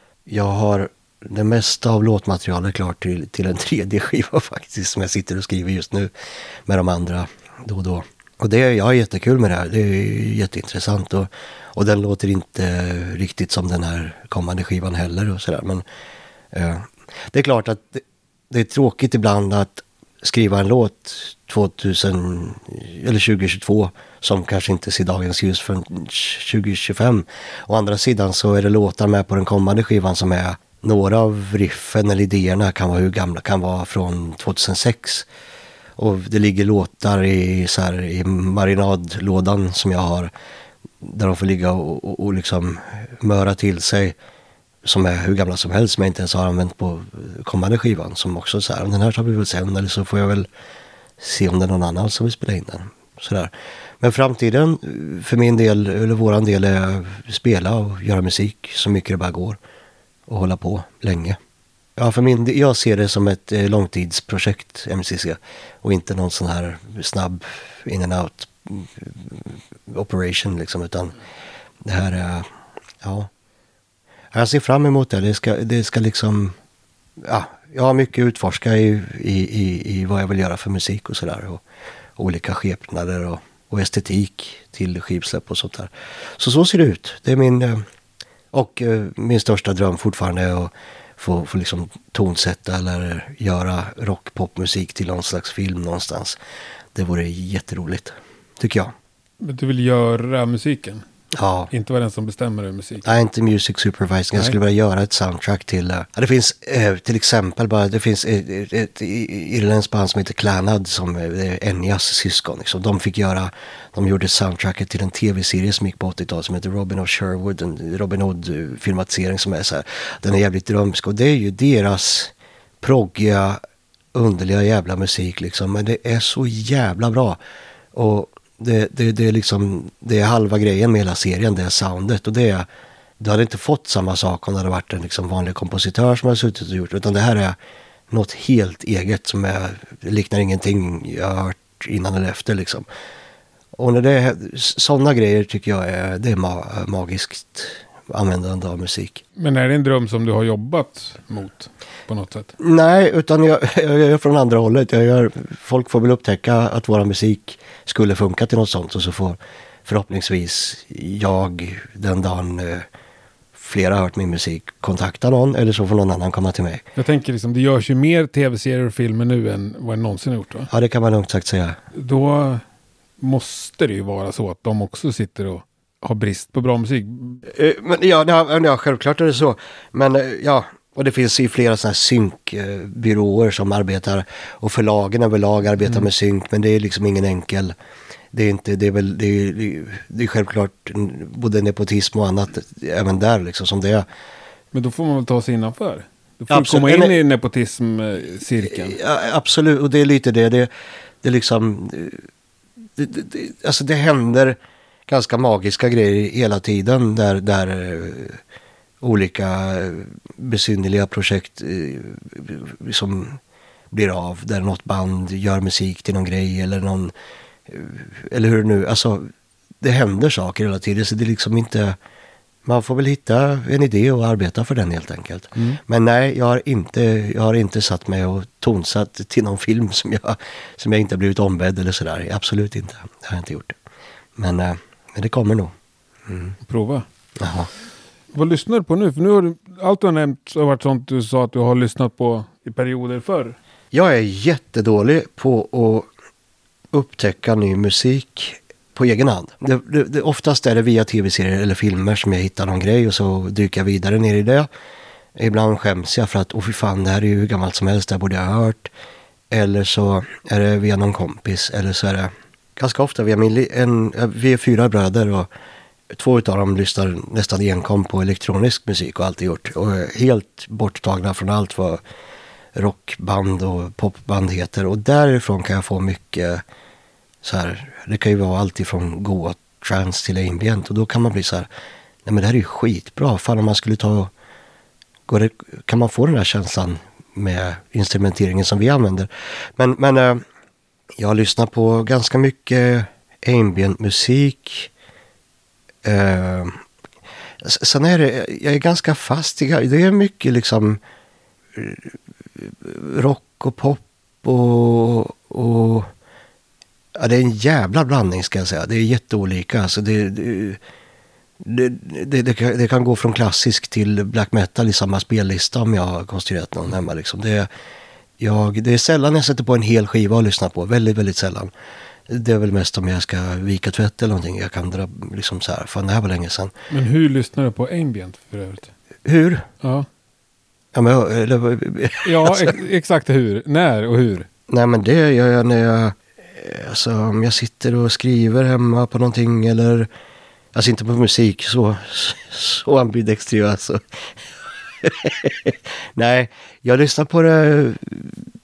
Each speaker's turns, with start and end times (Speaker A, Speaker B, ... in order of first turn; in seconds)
Speaker A: 0.3-6.1, 6.7-15.8, 16.5-35.3, 36.0-40.3, 41.0-44.1, 44.8-50.5, 51.2-59.6, 60.3-61.4, 62.0-71.2, 71.8-72.5, 73.0-73.3, 74.3-76.5, 77.2-81.6, 82.2-87.8, 88.5-96.4, 96.9-98.9, 101.3-101.7, 103.0-123.6, 124.1-127.4, 127.9-132.7, 133.2-137.6, 138.1-142.9, 143.8-149.2, 152.6-162.8, 163.5-166.8, 170.7-171.8, 177.5-187.7, 188.3-194.1, 196.5-197.2, 198.6-200.7, 201.2-202.2, 203.0-208.4, 209.0-213.4, 213.9-217.1, 217.7-219.3, 219.8-222.0, 222.6-233.7, 234.4-235.7, 236.3-236.5, 237.4-237.7, 243.9-246.1, 246.9-254.7, 255.3-258.9, 259.5-265.5, 266.1-272.0, 272.7-276.6, 277.4-281.7, 282.2-284.3, 285.3-290.4, 291.2-294.9, 296.0-296.8, 297.6-301.0, 301.7-306.1, 307.1-310.8, 311.6-317.7, 318.4-321.7, 322.3-326.7, 329.2-329.7, 330.9-332.8, 334.7-340.1, 340.7-344.0, 345.0-348.4
Speaker B: 99.4-101.0, 101.7-103.0, 149.4-152.5, 166.9-170.7, 171.9-172.6, 173.2-177.4, 194.7-199.0, 236.6-237.1, 238.3-243.6, 326.9-328.9, 329.8-330.1, 332.2-334.5